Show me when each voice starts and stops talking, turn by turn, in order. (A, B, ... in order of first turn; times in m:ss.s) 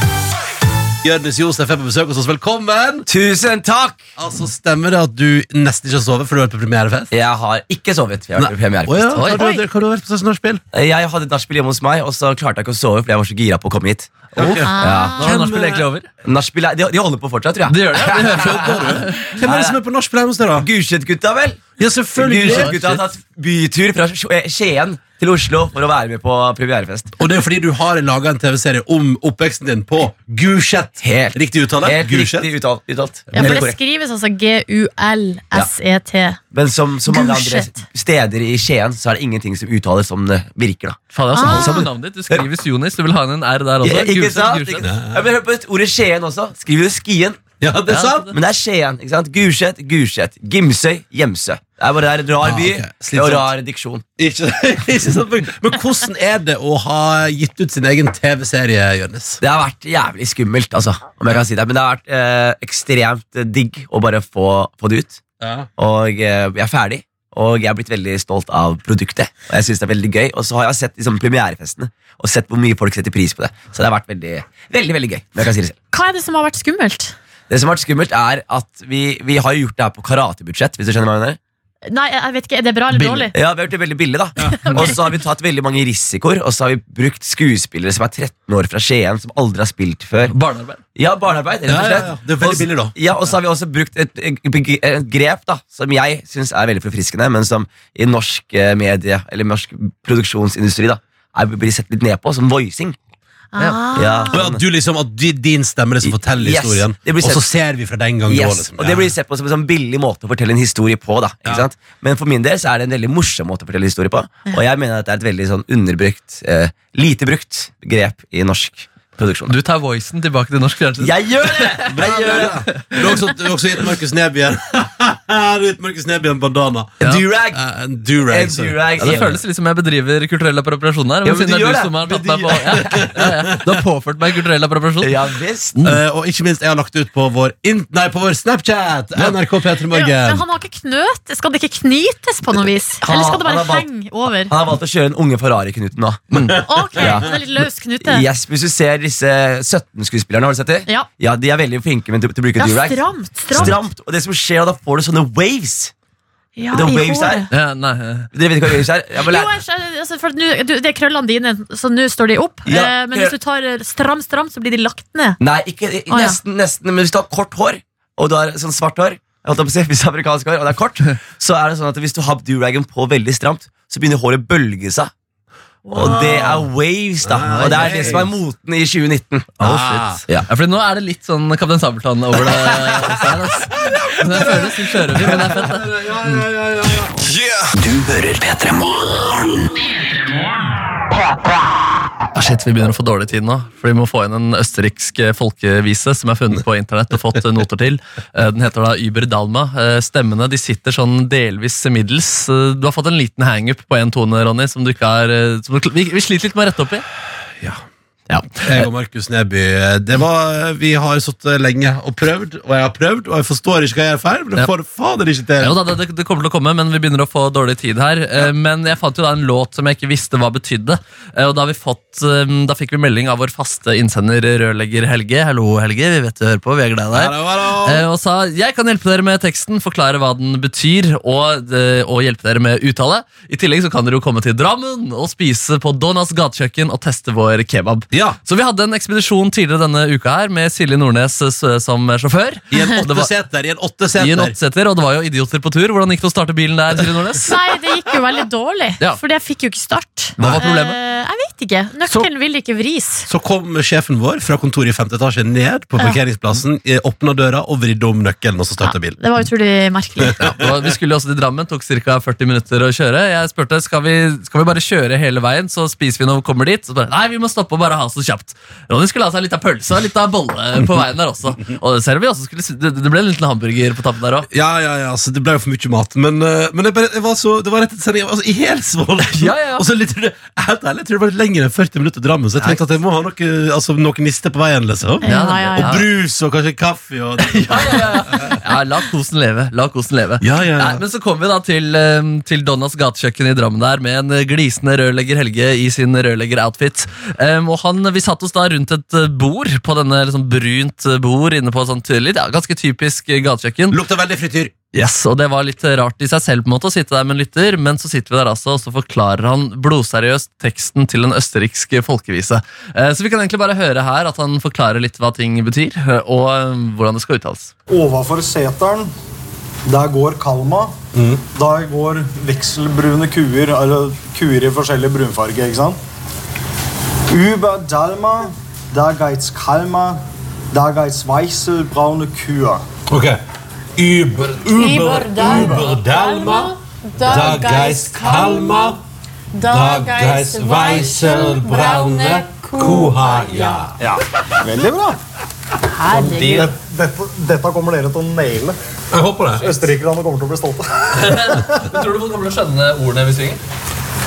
0:01.0-0:03.1 A
0:03.1-0:04.0 B
0:04.2-0:07.1 A
0:07.1-0:09.2 B
0:08.4-0:10.6 A
0:09.2-0:09.4 C
0:09.3-0:09.6 D
0:10.7-0:15.3 B
0:14.4-0:15.9 A
0:14.4-0:16.1 C
0:14.6-0:15.3 D
0:16.2-0:18.8 B
0:17.7-0:19.3 C
0:18.0-0:20.7 A
0:19.4-0:19.8 B
0:20.6-0:27.1 B
0:21.8-0:23.0 A
0:22.4-0:23.0 C
0:27.2-0:32.5 A
0:31.0-0:33.8 B
0:33.3-0:33.6 A
0:33.3-0:36.4 D
0:36.5-0:42.4 B
0:37.1-0:37.8 D
0:41.1-0:44.8 C
0:41.3-0:41.8 D
0:43.8-0:47.5 B
0:44.8-0:45.1 A
0:47.6-0:48.3 A
0:47.9-0:48.3 C
0:48.3-0:54.0 B
0:52.4-0:53.5 A
0:54.2-0:59.4 A
0:59.4-1:05.2 B
1:05.4-1:05.7 A
1:05.8-1:15.8 B
1:15.9-1:17.2 D
1:17.5-1:21.4 B
1:21.9-1:23.3 D
1:22.9-1:23.3 C
1:23.3-1:30.3 B
1:24.4-1:24.7 A
1:24.6-1:25.0 C
1:30.3-1:30.8 C
1:31.0-1:43.0 B
1:31.7-1:33.0 A
1:43.5-1:44.4 D
1:43.6-1:43.9 C
1:44.0-1:44.6 B
1:44.3-1:49.1 A
1:46.0-1:47.5 B
1:48.3-1:59.6 B
1:59.5-2:03.1 C
2:01.0-2:02.9 B
2:01.9-2:09.2 A
2:07.1-2:07.6 B
2:08.3-2:09.4 B
2:09.0-2:15.2 C
2:11.2-2:13.2 B
2:12.7-2:13.7 A
2:15.0-2:15.8 B
2:15.8-2:16.0 C
2:15.8-2:20.4 A
2:19.9-2:24.5 D
2:23.0-2:23.9 B
2:24.5-2:26.3 B
2:26.3-2:26.6 C
2:26.5-2:28.2 D
2:27.0-2:27.3 B
2:28.0-2:35.9 B
2:32.6-2:33.8 D
2:36.6-2:37.5 D
2:36.7-2:37.5 B
2:37.5-2:38.3 C
2:38.3-2:39.5 B
2:39.3-2:45.4 D
2:42.7-2:43.4 B
2:45.4-2:55.1 B
2:46.1-2:46.4 D
2:55.9-2:59.6 B
2:56.0-2:56.7 A
2:57.2-2:58.4 A
2:57.5-2:58.1 C
2:59.6-3:06.4 C
2:59.6-3:00.2 A
3:03.6-3:07.2 A
3:07.7-3:09.7 E
3:12.3-3:27.0 C
3:28.3-3:28.9 C
3:28.6-3:35.8 A
3:35.6-3:47.3 C
3:47.1-3:48.1 A
3:47.8-4:03.3 C
3:58.1-3:58.4 A
4:02.7-4:04.5 A
4:04.2-4:07.5 C
4:07.4-4:13.3 D
4:10.4-4:11.0 C
4:13.3-4:19.2 A
4:18.8-4:20.4 D
4:20.3-4:20.5 A
4:20.4-4:34.5 C
4:34.5-4:45.3 A
4:39.3-4:39.9 C
4:45.2-4:45.9 D
4:45.2-4:46.1 C
4:45.8-4:48.6 A
4:47.4-5:04.0 C
4:50.4-4:51.0 A
5:03.9-5:04.7 A
5:04.9-5:17.7 C
5:17.9-5:19.1 F
5:19.9-5:21.0 F
5:21.2-5:21.4 A
5:21.6-5:26.0 F
5:27.3-5:32.8 F
5:33.1-5:33.4 A
5:34.0-5:36.8 A
5:34.8-5:38.8 D
5:37.3-5:39.0 A
5:39.5-5:43.1 D
5:39.7-5:44.0 A
5:44.0-5:45.2 F
5:46.0-5:46.5 D
5:46.0-5:48.8 F
5:46.1-5:46.7 C
5:49.1-5:49.7 A
5:49.6-5:52.0 F
5:51.2-5:53.6 C